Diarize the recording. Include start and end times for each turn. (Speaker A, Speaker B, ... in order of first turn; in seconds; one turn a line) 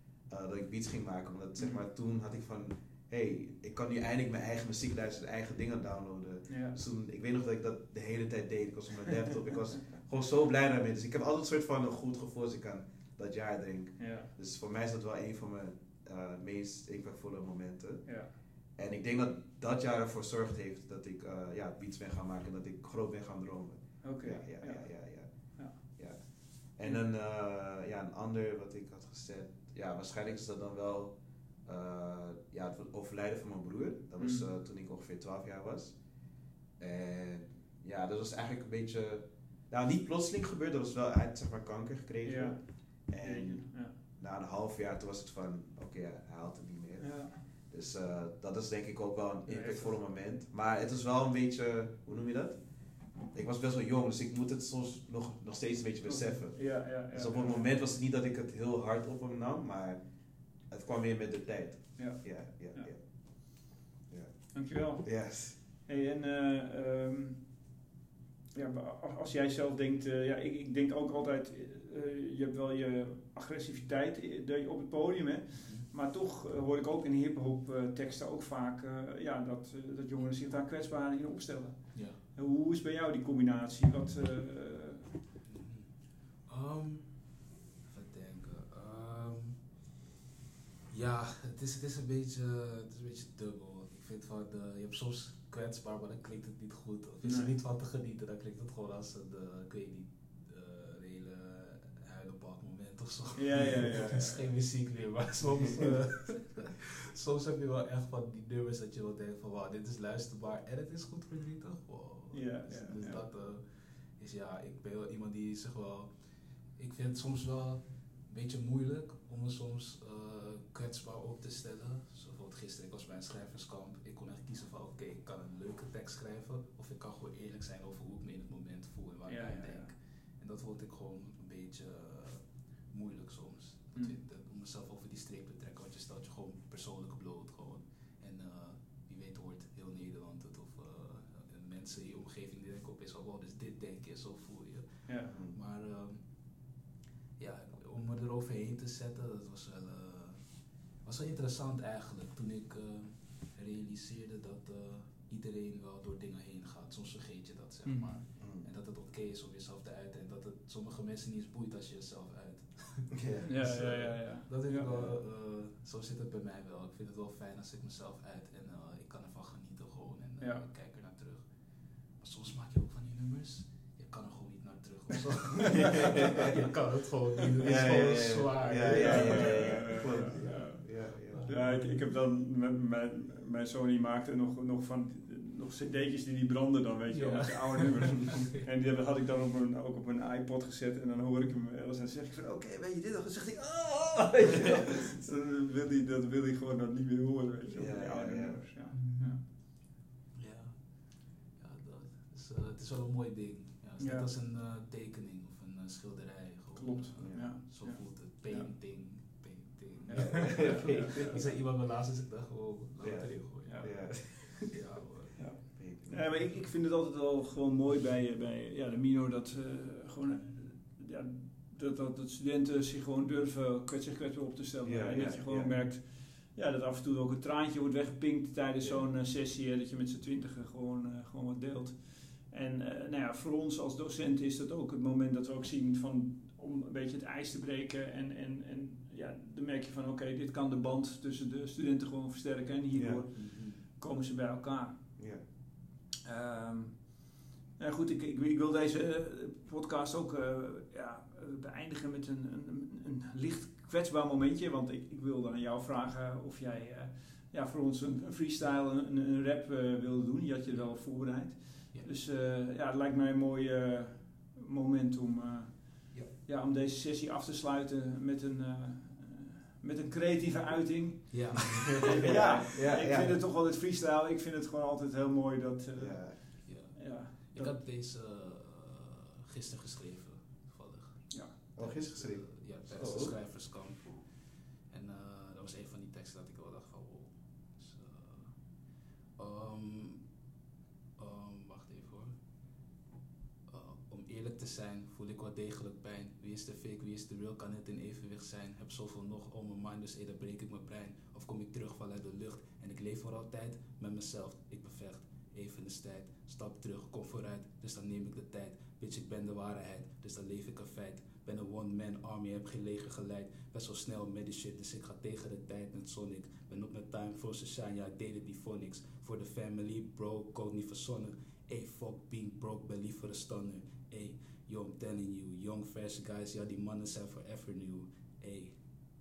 Speaker A: 0.3-18.1
Speaker B: 1.6-1.8
Speaker B: 6.5-6.8
Speaker B: 14.0-14.3
Speaker A: 18.8-31.1
Speaker B: 24.0-24.9
Speaker B: 25.6-25.8
Speaker A: 31.6-36.0
Speaker B: 34.2-34.5
Speaker A: 36.8-52.6
Speaker B: 42.2-43.9
Speaker B: 47.0-47.4
Speaker B: 49.5-50.0
Speaker A: 53.2-60.0
Speaker B: 56.1-57.7
Speaker A: 60.7-65.6
Speaker B: 62.0-62.9
Speaker B: 64.5-67.5
Speaker B: 68.5-85.1
Speaker C: 75.6-75.9
Speaker C: 81.9-82.2
Speaker C: 85.5-89.6
Speaker C: 90.9-116.1
Speaker B: 97.2-97.5
Speaker B: 103.3-104.5
Speaker B: 112.3-113.2
Speaker C: 116.8-146.6
Speaker B: 129.3-129.9
Speaker B: 145.1-145.3
Speaker A: 145.3-145.6
Speaker C: 147.4-182.1
Speaker B: 157.8-158.2
Speaker A: 158.4-158.7
Speaker A: 163.1-163.6
Speaker B: 163.5-165.2
Speaker B: 170.4-170.7
Speaker A: 175.8-176.5
Speaker A: 177.6-181.6
Speaker B: 178.8-180.9
Speaker B: 181.5-199.4
Speaker C: 187.1-188.6
Speaker A: 197.7-198.7
Speaker C: 198.9-199.4
Speaker C: 200.3-215.6
Speaker B: 204.0-204.3
Speaker B: 206.7-208.7
Speaker A: 207.2-207.5
Speaker B: 210.1-211.4
Speaker A: 210.2-211.3
Speaker A: 213.0-214.8
Speaker B: 213.7-214.1
Speaker B: 215.4-245.1
Speaker A: 215.8-216.4
Speaker C: 220.2-220.6
Speaker A: 224.8-225.8
Speaker A: 228.8-229.1
Speaker A: 242.9-243.2
Speaker C: 243.4-243.8
Speaker A: 245.2-245.4
Speaker B: 246.2-277.8
Speaker C: 271.3-272.1
Speaker A: 271.9-273.4
Speaker A: 276.0-276.4
Speaker C: 276.6-290.3
Speaker B: 281.3-281.6
Speaker A: 281.8-283.4
Speaker C: 291.2-292.4
Speaker C: 293.7-328.8